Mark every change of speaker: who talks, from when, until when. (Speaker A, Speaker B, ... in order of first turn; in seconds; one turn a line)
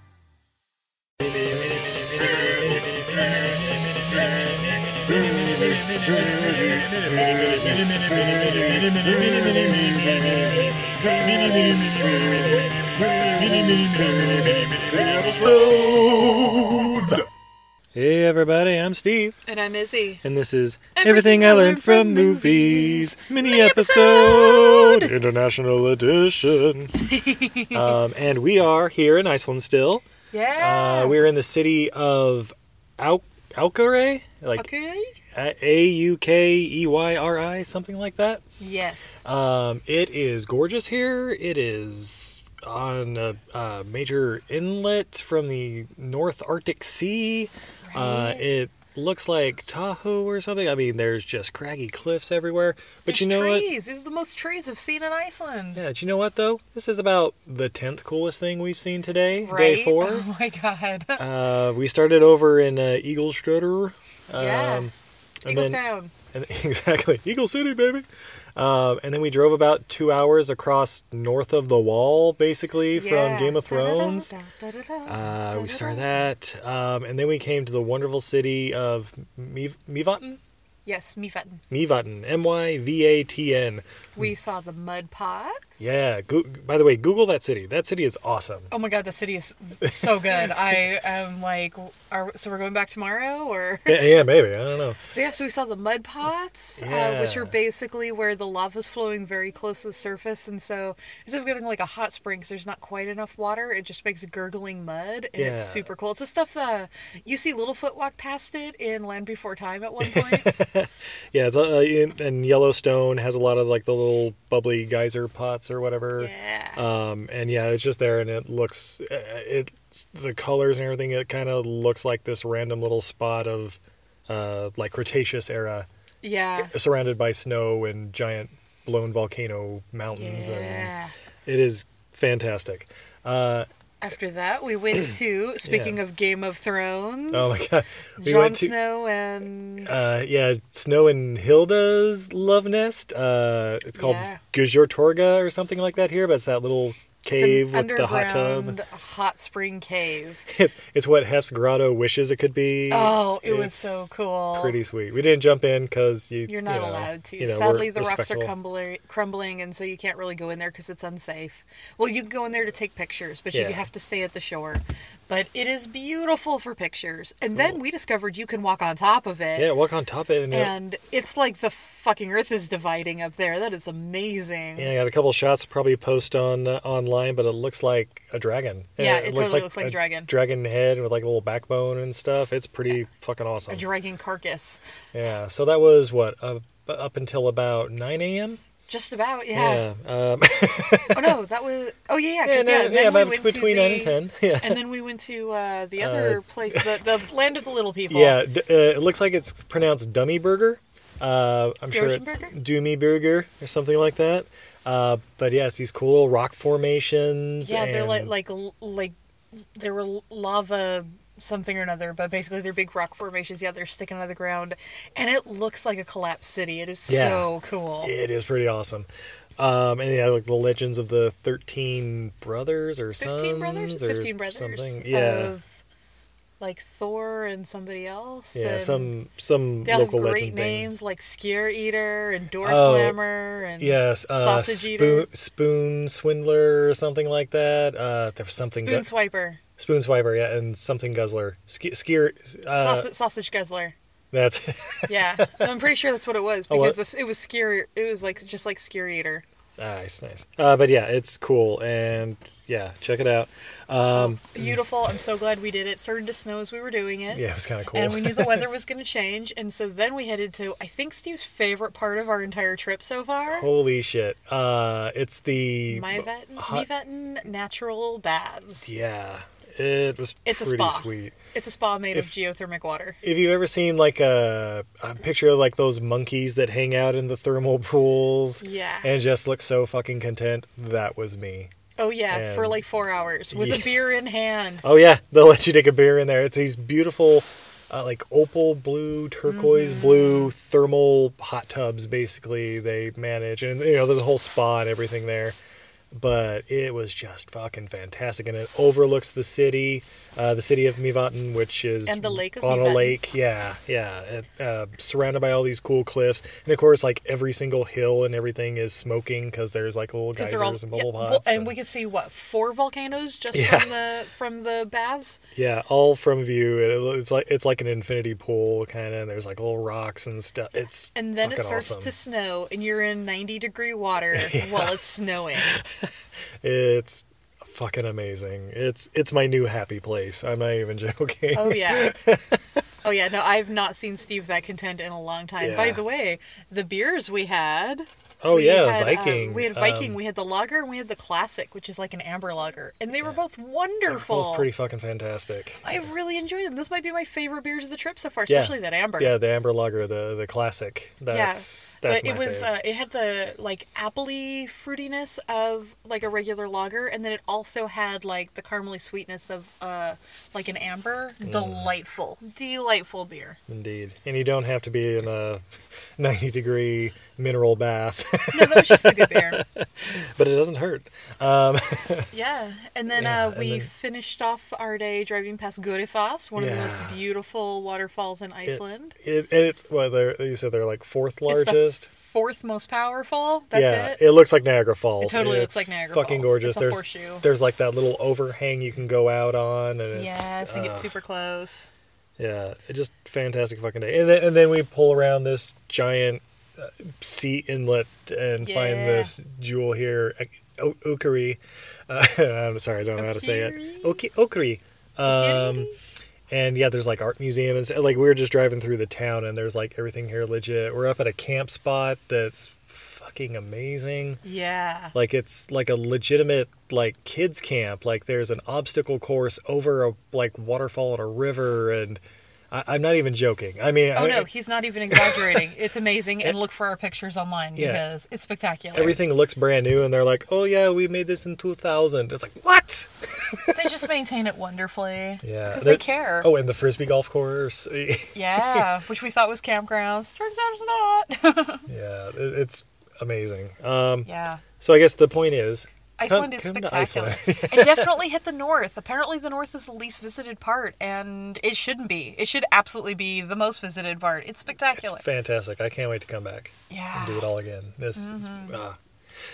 Speaker A: 1.3-3.5
Speaker A: 5.2-12.6
Speaker A: 13.1-17.2
Speaker A: 17.9-19.4
Speaker B: 19.4-20.2
Speaker A: 20.2-26.9
Speaker B: 20.9-25.1
Speaker B: 27.0-27.9
Speaker A: 27.7-30.0
Speaker B: 30.3-31.2
Speaker A: 30.6-34.7
Speaker B: 34.5-35.2
Speaker A: 35.3-38.4
Speaker B: 38.6-39.2
Speaker A: 39.2-53.7
Speaker B: 47.8-48.5
Speaker B: 53.0-55.8
Speaker A: 55.7-60.3
Speaker B: 59.4-61.2
Speaker A: 61.2-74.3
Speaker B: 64.3-64.9
Speaker B: 65.5-66.1
Speaker B: 72.9-76.2
Speaker A: 75.0-80.4
Speaker B: 80.8-81.6
Speaker A: 81.7-84.3
Speaker B: 84.1-85.9
Speaker A: 85.8-88.7
Speaker B: 88.7-94.2
Speaker A: 89.8-90.6
Speaker A: 93.8-95.0
Speaker B: 95.0-110.5
Speaker A: 96.8-97.6
Speaker A: 105.3-105.9
Speaker A: 110.0-125.9
Speaker B: 116.2-116.8
Speaker B: 126.2-126.7
Speaker A: 126.5-130.9
Speaker B: 130.2-131.1
Speaker A: 131.4-133.7
Speaker B: 134.0-137.6
Speaker A: 135.6-136.0
Speaker A: 137.3-138.8
Speaker B: 138.2-139.9
Speaker A: 139.8-148.8
Speaker B: 143.9-144.4
Speaker B: 147.3-150.4
Speaker A: 150.5-158.5
Speaker B: 152.9-154.8
Speaker B: 156.4-169.8
Speaker A: 163.5-163.8
Speaker A: 169.5-170.7
Speaker B: 170.5-174.9
Speaker A: 174.8-183.9
Speaker B: 179.0-180.3
Speaker B: 183.7-184.8
Speaker A: 185.1-188.6
Speaker B: 188.9-189.9
Speaker A: 189.5-191.4
Speaker B: 191.1-198.4
Speaker A: 192.4-194.9
Speaker A: 196.0-197.0
Speaker A: 198.1-208.3
Speaker B: 201.9-202.5
Speaker B: 207.6-209.1
Speaker B: 209.7-218.1
Speaker A: 217.1-225.6
Speaker B: 223.2-225.8
Speaker B: 226.6-229.1
Speaker A: 228.5-230.9
Speaker B: 229.8-235.3
Speaker A: 232.6-233.2
Speaker A: 233.8-239.1
Speaker B: 238.7-239.6
Speaker A: 239.8-243.1
Speaker B: 242.7-243.9
Speaker A: 244.3-245.7
Speaker B: 245.1-249.4
Speaker A: 246.7-247.0
Speaker A: 249.8-254.9
Speaker B: 254.1-263.7
Speaker A: 257.3-258.7
Speaker A: 263.5-266.9
Speaker B: 265.9-268.9
Speaker A: 268.8-271.3
Speaker B: 270.4-273.2
Speaker A: 273.2-281.7
Speaker B: 278.6-279.1
Speaker B: 281.9-284.8
Speaker A: 282.3-282.8
Speaker A: 283.5-284.1
Speaker A: 284.8-295.6
Speaker B: 289.4-290.5
Speaker A: 296.1-311.8
Speaker B: 302.0-303.2
Speaker B: 310.4-315.4
Speaker A: 313.5-314.0
Speaker A: 315.6-322.1
Speaker B: 321.1-325.8
Speaker A: 324.3-325.0
Speaker A: 325.6-326.1
Speaker A: 326.6-332.6
Speaker B: 331.5-332.2
Speaker B: 333.0-344.7
Speaker A: 335.6-336.0
Speaker A: 338.4-340.2
Speaker A: 344.1-345.9
Speaker B: 345.8-349.4
Speaker A: 348.5-352.7
Speaker B: 351.3-363.6
Speaker A: 361.4-361.9
Speaker A: 363.7-365.6
Speaker A: 366.2-372.3
Speaker B: 368.5-369.6
Speaker B: 372.3-379.1
Speaker A: 373.1-373.9
Speaker A: 376.6-377.2
Speaker A: 378.6-382.1
Speaker B: 381.5-384.2
Speaker A: 383.7-391.2
Speaker B: 385.2-387.5
Speaker B: 390.1-391.9
Speaker A: 392.4-405.9
Speaker B: 398.6-399.3
Speaker B: 403.2-404.2
Speaker B: 405.2-405.9
Speaker A: 406.5-414.4
Speaker B: 414.4-415.1
Speaker A: 415.1-424.5
Speaker B: 424.1-429.2
Speaker A: 425.1-425.7
Speaker A: 427.8-428.0
Speaker A: 428.9-434.1
Speaker B: 433.7-436.5
Speaker A: 435.4-438.9
Speaker B: 438.3-441.9
Speaker A: 441.9-444.3
Speaker B: 444.2-444.6
Speaker A: 444.8-448.2
Speaker B: 446.2-455.2
Speaker A: 454.9-459.0
Speaker B: 456.9-457.5
Speaker B: 458.1-458.8